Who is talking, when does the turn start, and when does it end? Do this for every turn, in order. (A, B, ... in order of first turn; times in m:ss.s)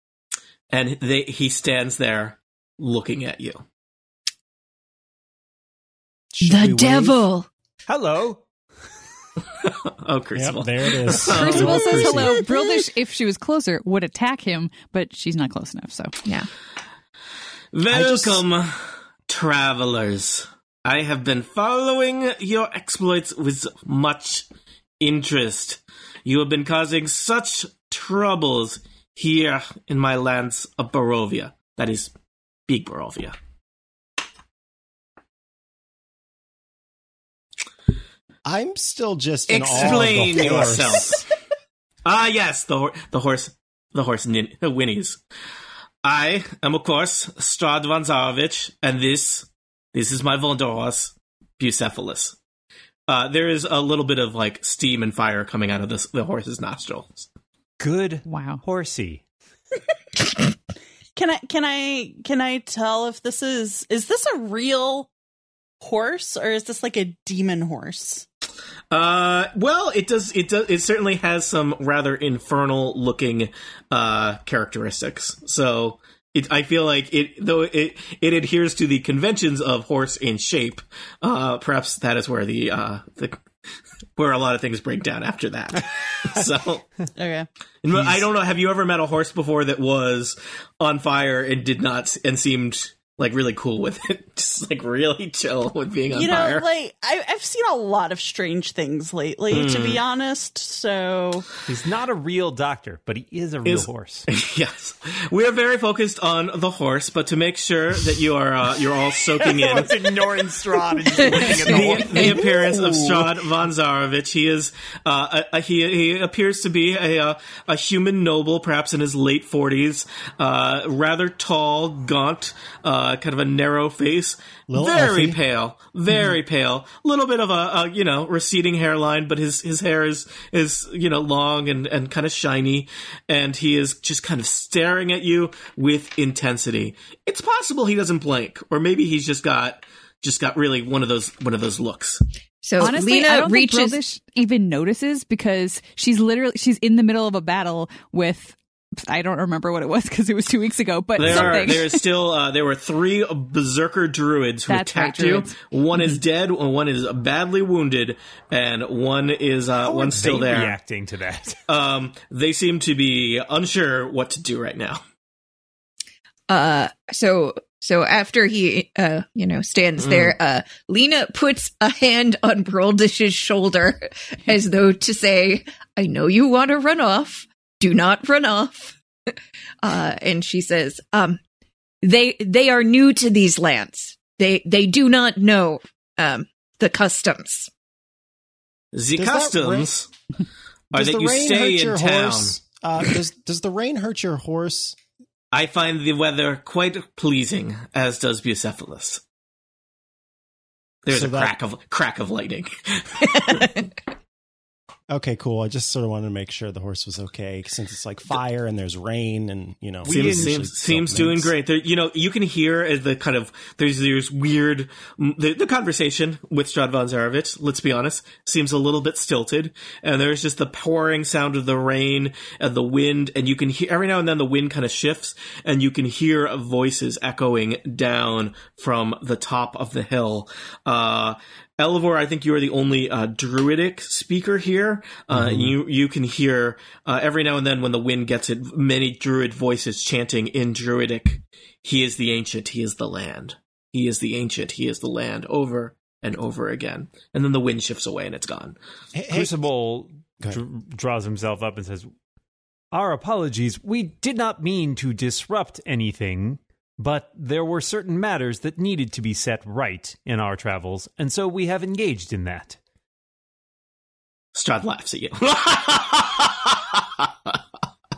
0:00.7-0:03.6 A
0:06.3-0:07.3 B
0:06.4-0:07.5 C
0:07.9-0:08.4 D
0:09.6-0:12.1 A
0:10.3-0:12.4 B
0:11.3-0:16.1 E
0:17.7-0:24.4 A
0:17.9-0:18.4 B
0:25.0-0:32.1 A
0:32.7-0:33.3 A
0:38.4-0:41.2 B
0:39.5-0:40.3 C
0:39.5-0:41.2 A
0:42.0-0:45.2 A
0:46.0-0:52.4 A
0:53.1-0:57.3 A
0:57.8-0:59.2 D
0:58.2-0:58.6 E
1:01.1-1:05.1 F
1:05.8-1:08.2 F
1:08.9-1:23.4 A
1:24.2-1:26.9 A
1:27.2-1:27.5 F
1:27.8-1:36.7 A
1:36.1-1:41.5 F
1:39.5-1:40.0 A
1:41.6-1:44.3 D
1:43.6-1:49.9 A
1:49.4-1:53.2 D
1:51.2-1:52.2 C
1:51.4-2:22.2 A
2:04.7-2:05.4 B
2:22.6-2:24.0 C
2:22.8-2:32.0 E
2:31.2-2:40.8 A
2:31.2-2:31.7 D
2:34.7-2:36.2 E
2:39.8-2:41.6 D
2:41.7-2:45.0 A
2:46.5-2:59.0 C
2:50.0-2:50.3 A
2:59.8-3:01.4 C
3:02.0-3:07.7 C
3:08.9-3:10.1 A
3:09.2-3:09.9 B
3:10.9-3:15.0 B
3:10.9-3:12.6 A
3:15.5-3:19.2 A
3:21.0-3:23.7 A
3:21.1-3:21.5 B
3:25.1-3:31.5 B
3:30.0-3:30.7 D
3:30.0-4:08.8 A
3:55.3-3:55.7 B
4:09.1-4:09.6 B
4:09.3-4:12.1 D
4:12.9-4:22.8 D
4:24.5-4:27.6 A